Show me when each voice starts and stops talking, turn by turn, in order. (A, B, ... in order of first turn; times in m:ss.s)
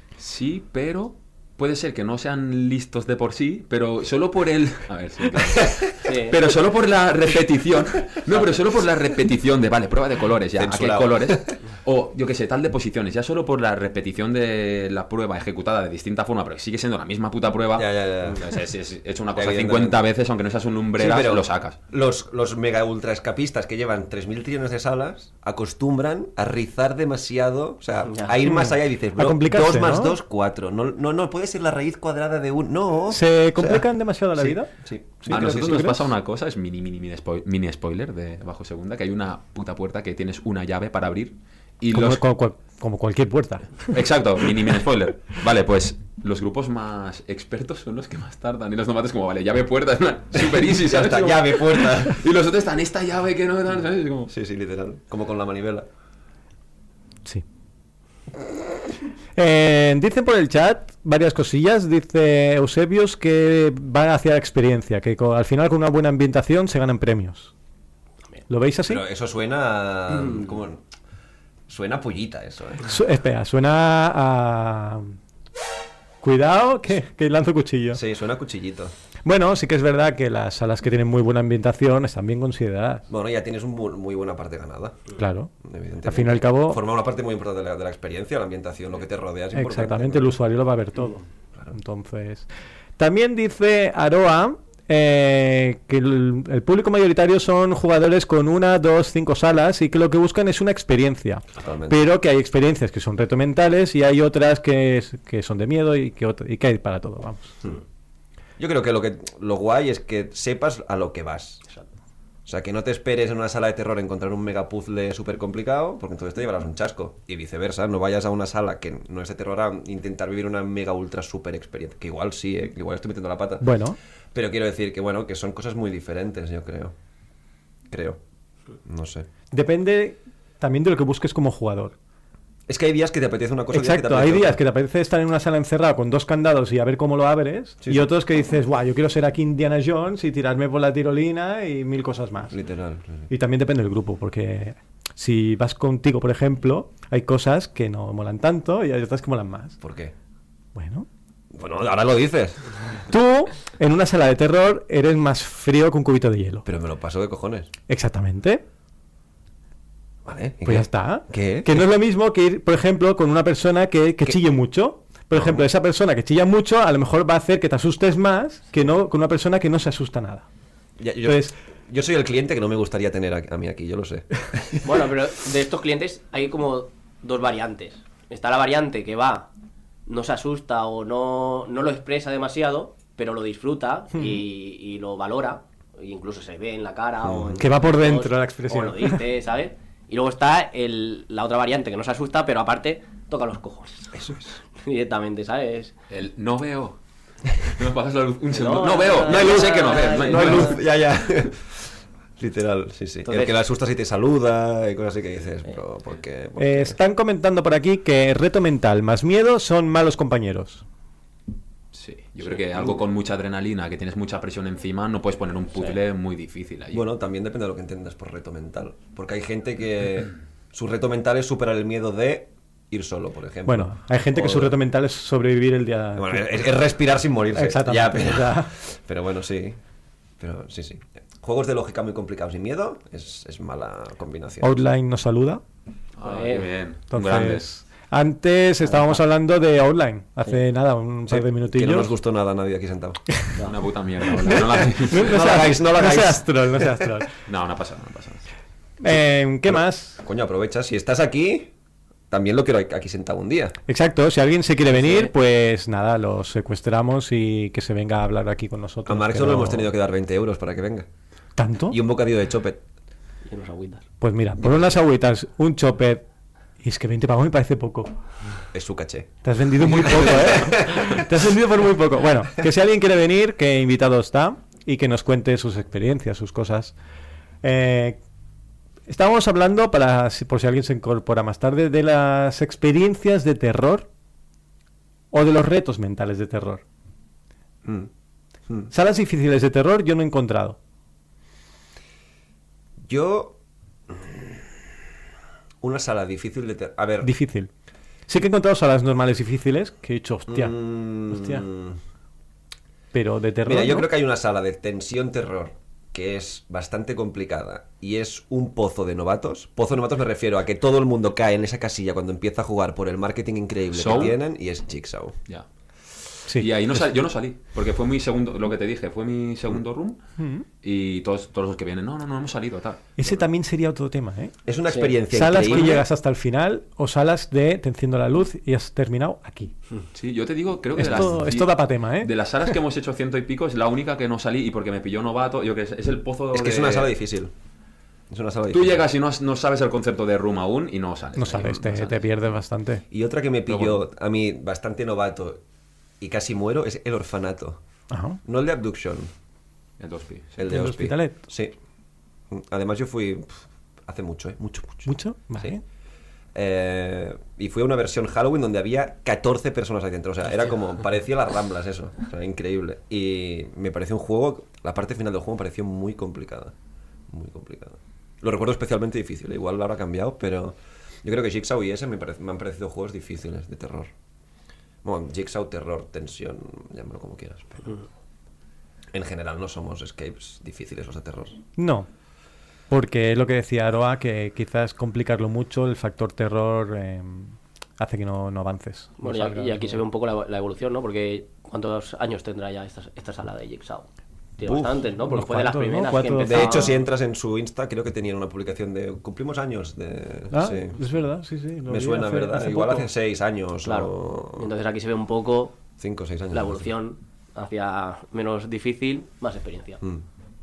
0:00.2-0:21.8 A
0:05.4-0:05.9 B
0:06.0-0:06.4 C
0:10.6-0:11.6 B
0:17.7-0:18.5 B
0:19.3-0:20.0 B
0:21.0-0:35.9 B
0:28.4-0:30.2 D
0:33.1-0:36.0 D
0:35.3-0:42.2 A
0:41.9-0:43.9 D
0:43.9-0:54.3 A
0:50.3-0:52.2 B
0:54.3-0:55.9 B
0:59.4-1:07.5 D
1:08.5-1:09.0 D
1:08.8-1:10.8 B
1:11.7-1:12.9 B
1:12.8-1:15.2 D
1:16.2-1:18.0 D
1:17.9-1:18.9 B
1:19.2-1:23.1 D
1:23.1-1:25.0 B
1:25.2-1:25.5 D
1:25.6-1:30.3 B
1:26.0-1:26.8 D
1:29.5-1:32.5 D
1:33.0-1:47.6 D
1:41.6-1:42.0 B
1:48.6-1:51.6 B
1:52.4-2:03.6 B
2:03.6-2:04.0 D
2:04.3-2:06.9 B
2:07.9-2:08.2 B
2:08.8-2:09.3 B
2:09.5-2:12.0 D
2:12.7-2:14.6 B
2:13.7-2:22.6 D
2:17.8-2:18.1 B
2:22.5-2:23.3 B
2:23.3-2:29.8 D
2:29.8-2:30.1 B
2:30.7-2:31.0 D
2:31.5-2:32.7 B
2:33.1-2:36.6 D
2:36.6-2:37.7 B
2:37.9-2:38.6 D
2:40.2-2:41.8 B
2:40.6-2:50.4 D
2:45.3-2:45.6 B
2:51.0-2:55.0 B
2:51.2-2:51.5 D
2:54.8-2:59.5 C
3:00.0-3:15.9 C
3:07.2-3:07.6 B
3:07.6-3:09.2 D
3:14.1-3:14.5 B
3:16.1-3:17.0 A
3:17.6-3:20.8 A
3:18.5-3:20.8 C
3:19.2-3:27.0 B
3:23.2-3:23.6 C
3:26.6-3:30.8 D
3:31.9-3:37.0 A
3:36.9-3:44.8 B
3:43.6-3:46.6 D
3:46.2-3:49.8 B
3:47.5-3:48.7 D
3:50.4-3:54.8 B
3:54.6-3:55.6 D
3:56.2-3:57.7 A
3:56.2-3:56.7 C
3:57.1-4:02.1 D
3:58.9-3:59.2 C
4:01.3-4:03.3 B
4:03.6-4:05.5 A
4:04.5-4:07.1 B
4:05.1-4:07.3 D
4:07.4-4:08.4 A
4:09.0-4:10.2 D
4:09.7-4:11.7 B
4:12.3-4:13.8 B
4:13.9-4:19.9 D
4:15.0-4:15.3 C
4:19.0-4:21.1 B
4:21.6-4:22.0 D
4:21.9-4:22.8 B
4:23.4-4:24.0 C
4:24.2-4:26.2 D
4:26.8-4:28.1 D
4:28.7-4:29.3 B
4:29.4-4:36.9 D
4:29.8-4:31.2 B
4:37.6-4:38.2 D
4:39.1-4:44.1 D
4:45.3-4:46.8 D
4:47.8-4:48.1 B
4:48.9-4:50.8 D
4:53.1-4:53.6 B
4:54.1-4:54.8 B
4:55.8-4:57.3 B
4:57.2-4:57.7 D
4:58.3-5:01.6 D
5:00.5-5:02.0 B
5:03.1-5:04.1 D
5:03.6-5:15.4 B
5:13.9-5:14.4 A
5:16.6-5:20.2 A
5:20.4-5:20.6 D
5:20.8-5:23.4 A
5:23.2-5:24.5 D
5:24.6-5:26.0 B
5:24.9-5:25.2 C
5:25.3-5:29.7 D
5:25.7-5:26.0 A
5:30.1-5:37.1 A
5:30.9-5:32.3 D
5:36.5-5:37.5 B
5:38.3-5:39.0 B
5:38.7-5:42.2 A
5:41.4-5:43.0 D
5:43.1-5:45.6 B
5:43.7-5:44.0 A
5:46.2-5:47.8 B
5:48.1-5:48.4 D
5:48.4-5:49.3 B
5:50.0-5:50.6 A
5:50.6-5:51.7 B
5:50.7-5:51.4 D
5:52.5-5:55.7 B
5:55.0-5:55.8 D
5:56.5-6:06.7 B
6:07.3-6:14.1 B
6:15.0-6:18.0 B
6:19.1-6:21.6 B
6:21.8-6:22.1 D
6:22.9-6:30.0 D
6:29.2-6:37.0 C
6:34.6-6:35.0 B
6:35.2-6:36.9 D
6:36.4-6:41.1 B
6:40.5-6:43.1 D
6:41.8-6:44.7 B
6:43.8-6:45.8 C
6:46.0-6:46.9 B
6:46.5-6:50.0 C